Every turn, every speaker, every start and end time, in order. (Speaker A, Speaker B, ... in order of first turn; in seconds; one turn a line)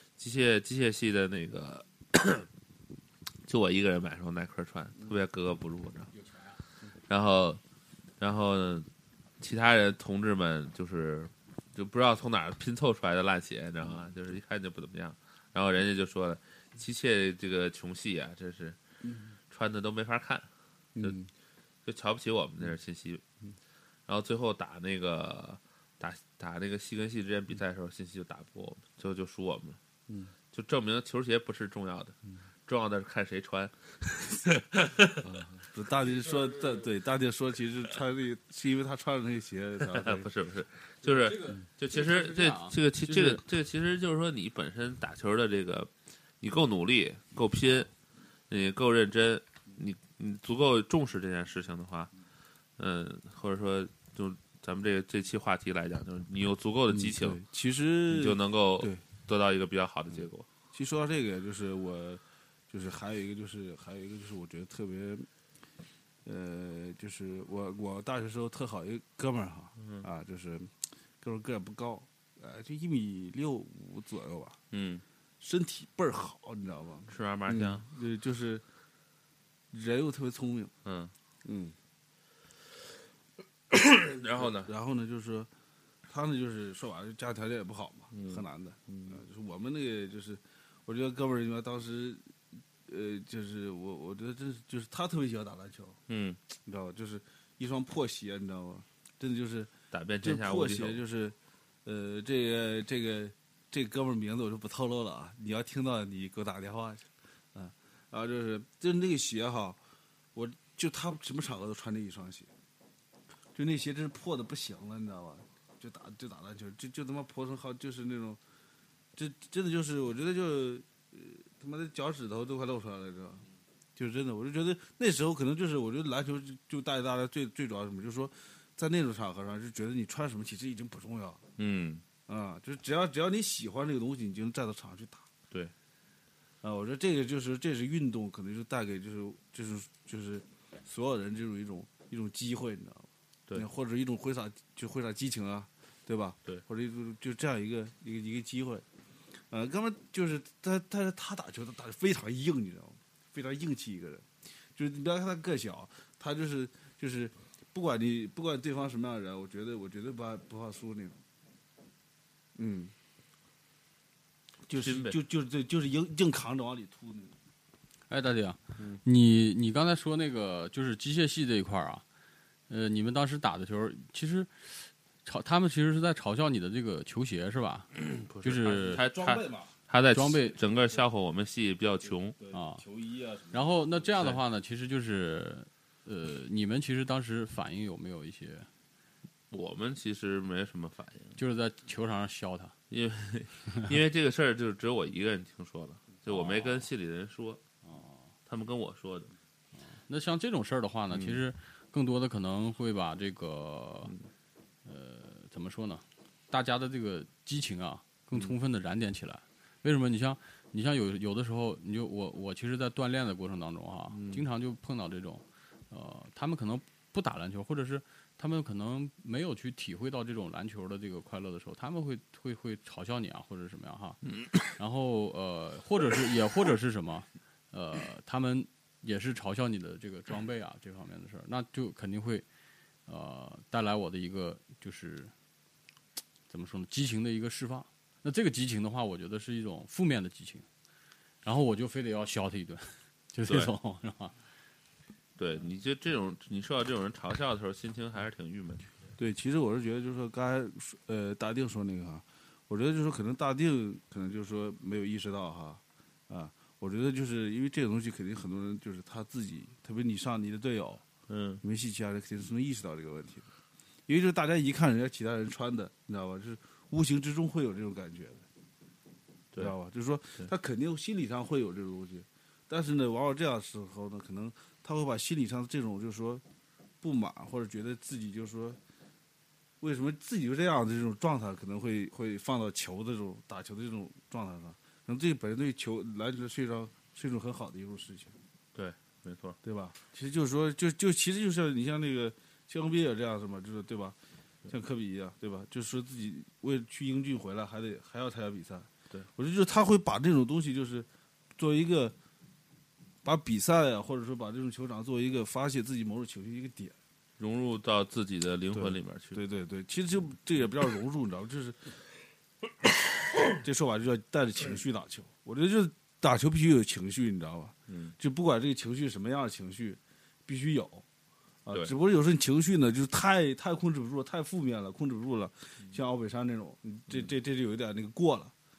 Speaker A: 0.2-2.5
Speaker A: 3.4-6.1
Speaker A: 7.1-7.6
Speaker A: 8.2-8.9
Speaker A: 9.4-18.8
Speaker B: 19.0-19.3
Speaker A: 19.5-20.5
Speaker B: 20.9-21.3
Speaker A: 21.8-23.2
Speaker A: 24.1-29.8
Speaker B: 30.1-30.3
Speaker A: 30.5-35.4
Speaker B: 35.2-40.3
Speaker A: 39.8-47.9
Speaker C: 41.0-43.4
Speaker A: 48.5-52.1
Speaker A: 52.8-57.4
Speaker B: 56.9-59.0
Speaker A: 58.1-60.5
Speaker B: 60.7-65.3
Speaker B: 66.2-74.6
Speaker A: 69.8-70.1
Speaker A: 74.7-75.0
Speaker B: 75.4-78.6
Speaker A: 77.1-77.8
Speaker B: 79.7-80.7
Speaker A: 80.8-81.1
Speaker B: 81.4-81.7
Speaker A: 83.7-84.7
Speaker B: 84.4-85.5
Speaker B: 86.1-92.3
Speaker A: 88.1-89.2
Speaker B: 92.8-96.0
Speaker A: 96.1-96.4
Speaker B: 96.6-109.8
Speaker A: 99.9-101.0
Speaker B: 110.3-112.5
Speaker B: 113.5-118.4
Speaker B: 119.1-123.4
Speaker B: 124.0-131.4
Speaker A: 131.6-132.0
Speaker B: 132.3-135.3
Speaker B: 136.6-148.8
Speaker B: 149.5-161.2
Speaker B: 162.6-162.9
Speaker B: 164.7-167.3
Speaker A: 164.8-165.2
Speaker C: 168.1-172.0
Speaker C: 172.7-177.9
Speaker A: 178.0-182.3
Speaker C: 178.4-179.0
Speaker B: 178.8-179.7
Speaker C: 180.1-180.6
Speaker B: 182.4-183.8
Speaker C: 182.5-182.8
Speaker C: 183.5-188.7
Speaker A: 189.5-191.4
Speaker C: 191.3-192.7
Speaker A: 192.9-197.6
Speaker C: 197.8-198.2
Speaker A: 198.5-199.3
Speaker C: 199.7-204.1
Speaker A: 201.1-201.4
Speaker C: 204.8-224.2
Speaker C: 224.7-232.4
Speaker C: 233.1-235.3
Speaker C: 236.5-240.7
Speaker C: 241.4-244.3
Speaker A: 243.5-243.7
Speaker A: 245.4-248.8
Speaker B: 249.2-261.0
Speaker A: 261.3-261.6
Speaker B: 261.6-263.5
Speaker B: 264.1-268.4
Speaker B: 269.6-276.4
Speaker B: 277.0-278.8
Speaker B: 279.8-288.3
Speaker A: 288.7-289.6
Speaker B: 289.6-294.1
Speaker B: 294.7-302.1
Speaker B: 303.2-306.9
Speaker A: 307.4-309.4
Speaker B: 308.7-311.8
Speaker B: 313.5-321.0
Speaker A: 317.9-318.1
Speaker B: 321.6-328.5